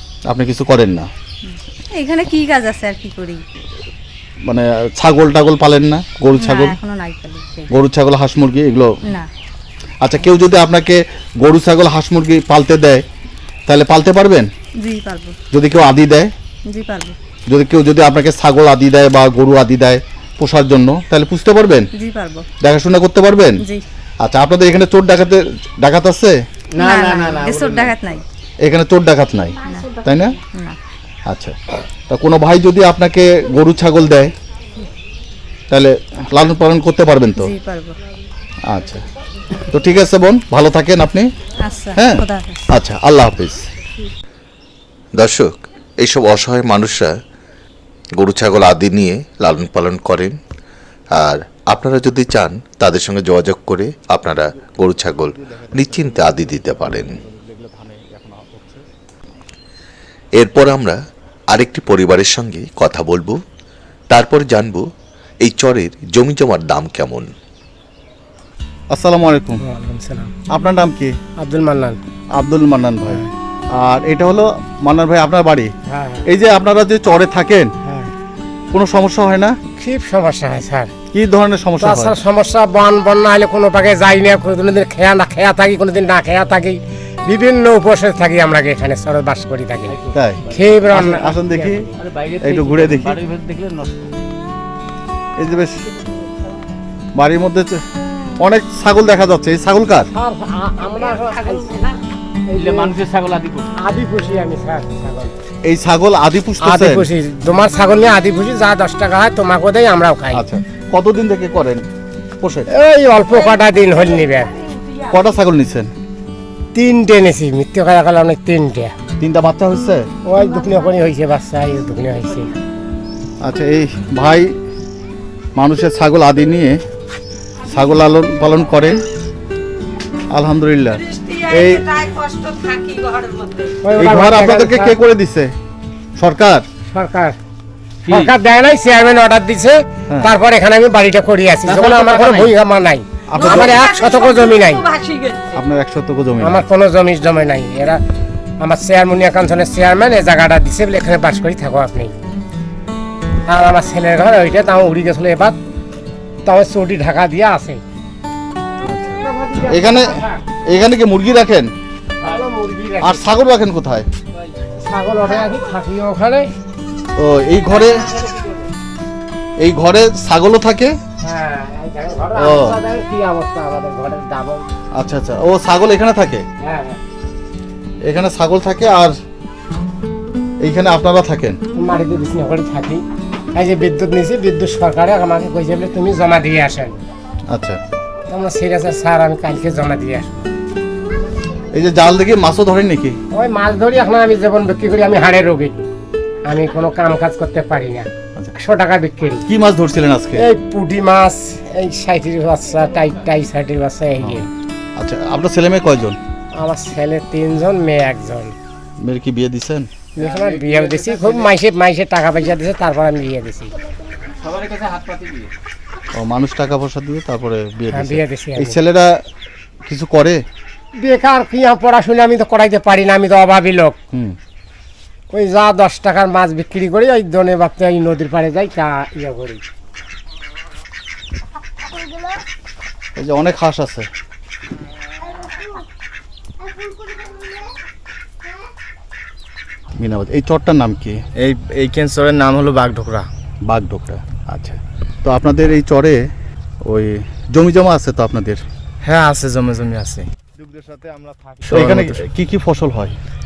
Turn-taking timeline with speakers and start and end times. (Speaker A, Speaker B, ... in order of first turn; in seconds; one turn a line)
Speaker A: 0.3-1.1
Speaker B: 1.4-3.4
Speaker A: 4.5-6.8
Speaker B: 6.4-7.7
Speaker A: 7.7-9.0
Speaker A: 10.0-13.0
Speaker A: 13.7-14.5
Speaker B: 14.8-15.4
Speaker A: 15.5-16.3
Speaker B: 16.7-17.2
Speaker A: 17.5-21.9
Speaker B: 22.0-22.5
Speaker A: 22.6-23.6
Speaker A: 24.2-26.4
Speaker C: 26.8-27.9
Speaker B: 26.8-28.2
Speaker A: 28.6-30.4
Speaker B: 29.6-30.8
Speaker A: 31.3-31.6
Speaker A: 32.1-34.3
Speaker A: 35.7-37.5
Speaker B: 37.4-38.0
Speaker A: 38.7-39.0
Speaker A: 39.7-41.3
Speaker B: 41.6-42.7
Speaker A: 42.0-43.7
Speaker D: 45.2-47.1
Speaker D: 48.2-50.4
Speaker D: 51.2-57.2
Speaker A: 54.9-58.8
Speaker D: 60.4-61.0
Speaker D: 61.5-63.4
Speaker D: 64.1-64.8
Speaker D: 65.4-67.3
Speaker A: 68.9-69.7
Speaker E: 69.6-70.3
Speaker A: 70.5-71.1
Speaker E: 71.4-72.0
Speaker A: 72.3-73.2
Speaker A: 73.7-75.7
Speaker E: 75.9-76.3
Speaker A: 76.2-77.7
Speaker E: 77.8-78.1
Speaker A: 78.7-79.6
Speaker E: 79.8-80.9
Speaker A: 81.1-82.2
Speaker E: 81.8-90.0
Speaker C: 89.9-90.8
Speaker A: 90.1-91.9
Speaker E: 90.5-91.9
Speaker C: 92.0-94.1
Speaker A: 92.4-93.2
Speaker A: 95.4-95.8
Speaker A: 97.2-97.8
Speaker A: 98.4-100.1
Speaker E: 100.1-101.9
Speaker E: 102.5-103.0
Speaker C: 102.5-103.7
Speaker E: 103.8-105.3
Speaker A: 105.6-107.1
Speaker E: 106.6-110.4
Speaker A: 110.3-111.8
Speaker A: 112.4-112.7
Speaker E: 112.7-114.5
Speaker A: 115.1-115.9
Speaker E: 116.7-118.9
Speaker A: 119.2-120.1
Speaker E: 120.2-122.5
Speaker A: 123.4-124.5
Speaker A: 125.6-126.8
Speaker A: 127.7-129.0
Speaker A: 130.3-131.9
Speaker B: 131.2-133.8
Speaker E: 133.8-134.9
Speaker A: 134.0-135.5
Speaker A: 136.2-136.7
Speaker E: 136.9-137.4
Speaker C: 138.1-138.3
Speaker E: 138.1-144.8
Speaker C: 141.7-142.5
Speaker A: 143.3-143.8
Speaker B: 143.4-145.6
Speaker A: 145.5-146.6
Speaker E: 146.4-148.0
Speaker E: 148.6-152.2
Speaker E: 153.5-155.6
Speaker E: 156.4-157.8
Speaker A: 158.8-161.7
Speaker E: 159.2-160.4
Speaker E: 162.2-163.2
Speaker A: 163.0-164.1
Speaker E: 164.8-166.5
Speaker A: 167.2-168.1
Speaker E: 168.2-168.6
Speaker A: 169.6-170.9
Speaker E: 171.2-174.7
Speaker A: 172.4-172.8
Speaker A: 175.0-176.4
Speaker E: 176.6-177.0
Speaker A: 178.1-179.2
Speaker A: 180.6-181.6
Speaker E: 181.7-183.0
Speaker E: 183.6-187.0
Speaker A: 187.5-187.8
Speaker E: 188.3-190.3
Speaker A: 191.7-193.2
Speaker E: 193.3-195.8
Speaker E: 196.4-199.4
Speaker A: 199.5-200.5
Speaker E: 200.4-204.5
Speaker A: 204.2-206.2
Speaker E: 206.5-208.6
Speaker A: 209.0-209.9
Speaker E: 210.2-213.7
Speaker C: 210.2-211.5
Speaker C: 214.4-215.5
Speaker A: 216.1-219.2
Speaker E: 217.9-218.8
Speaker A: 219.8-220.4
Speaker E: 221.0-224.0
Speaker E: 225.3-229.6
Speaker A: 233.2-234.1
Speaker A: 240.0-241.2
Speaker F: 241.4-243.3
Speaker A: 243.7-246.3
Speaker A: 246.9-248.6
Speaker F: 249.0-252.2
Speaker A: 251.7-253.2